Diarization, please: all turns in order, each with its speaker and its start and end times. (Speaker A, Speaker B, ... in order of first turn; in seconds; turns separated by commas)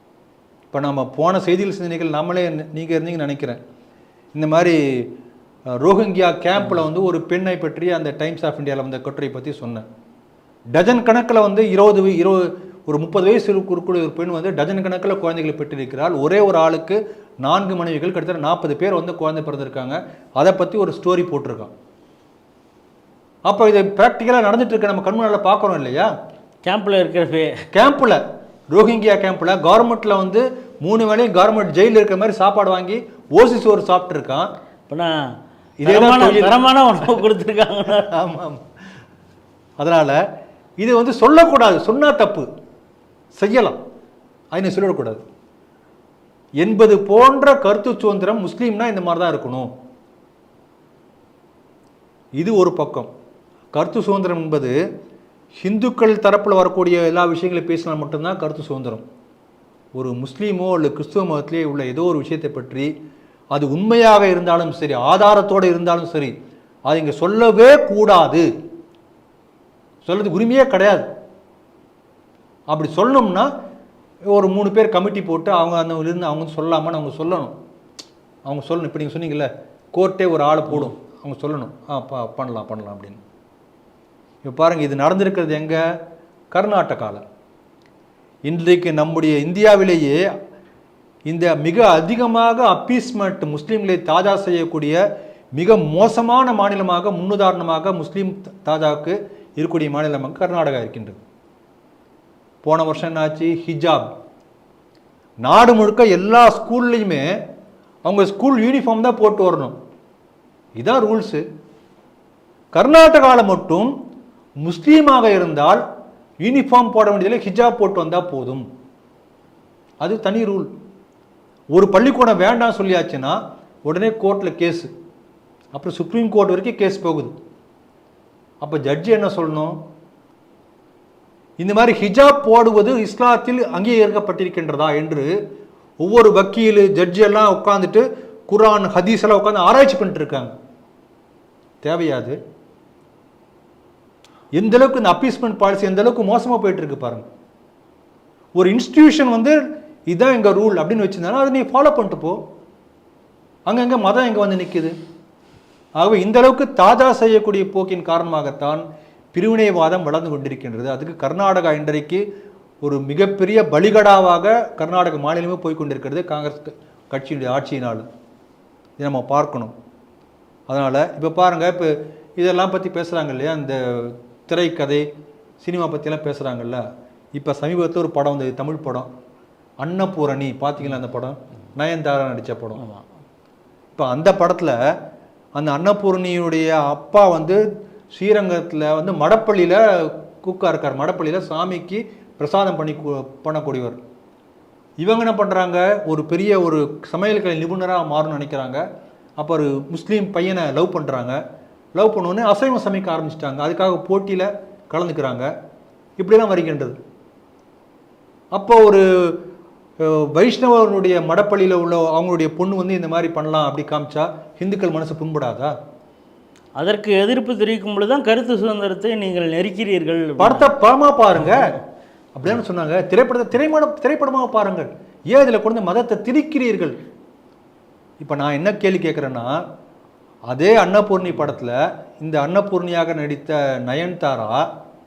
Speaker A: 0.7-3.6, Speaker A: 4.3-5.1, Speaker A: 5.8-9.8, Speaker A: 10.7-21.7, Speaker A: 23.4-26.1, Speaker B: 26.6-27.5, Speaker A: 27.7-28.2, Speaker A: 28.7-34.5, Speaker A: 35.8-37.2, Speaker B: 35.8-38.1, Speaker A: 37.9-38.6, Speaker A: 39.8-40.2, Speaker A: 40.8-42.5, Speaker A: 43.3-43.8, Speaker A: 44.5-45.2, Speaker A: 46.6-49.7, Speaker A: 52.4-53.1, Speaker A: 53.7-54.7, Speaker A: 55.6-59.0, Speaker A: 59.9-62.9, Speaker A: 63.5-66.3, Speaker A: 66.9-68.5, Speaker A: 70.0-71.0, Speaker A: 72.7-73.5, Speaker A: 74.3-77.5, Speaker A: 78.5-83.2, Speaker A: 84.4-85.8, Speaker A: 86.5-87.2, Speaker A: 88.4-90.2, Speaker A: 91.3-95.0, Speaker A: 95.5-101.2, Speaker A: 102.6-104.1, Speaker A: 105.4-107.3, Speaker A: 108.0-109.7, Speaker A: 110.8-111.4, Speaker A: 112.7-113.9, Speaker A: 114.6-115.8, Speaker A: 116.4-118.6, Speaker A: 120.0-120.7, Speaker A: 121.7-124.9, Speaker A: 125.7-127.3, Speaker A: 128.6-129.8, Speaker A: 131.6-135.3, Speaker A: 136.0-140.5, Speaker A: 141.8-142.4, Speaker A: 144.5-147.2, Speaker A: 148.5-152.4, Speaker A: 153.7-154.9, Speaker A: 156.0-162.2, Speaker A: 162.8-168.1, Speaker A: 169.0-169.7, Speaker A: 170.7-175.1, Speaker A: 175.6-176.8, Speaker A: 177.3-179.1, Speaker A: 179.8-182.8, Speaker B: 182.8-183.0, Speaker A: 183.9-184.8, Speaker A: 185.5-187.6, Speaker A: 188.1-194.0, Speaker A: 195.0-198.8, Speaker A: 199.4-201.4, Speaker A: 201.9-205.5, Speaker A: 206.2-207.0, Speaker A: 208.5-209.3, Speaker A: 210.0-215.7, Speaker B: 216.8-220.7, Speaker A: 220.4-221.8, Speaker A: 222.3-226.9, Speaker A: 228.2-229.6, Speaker A: 230.5-234.7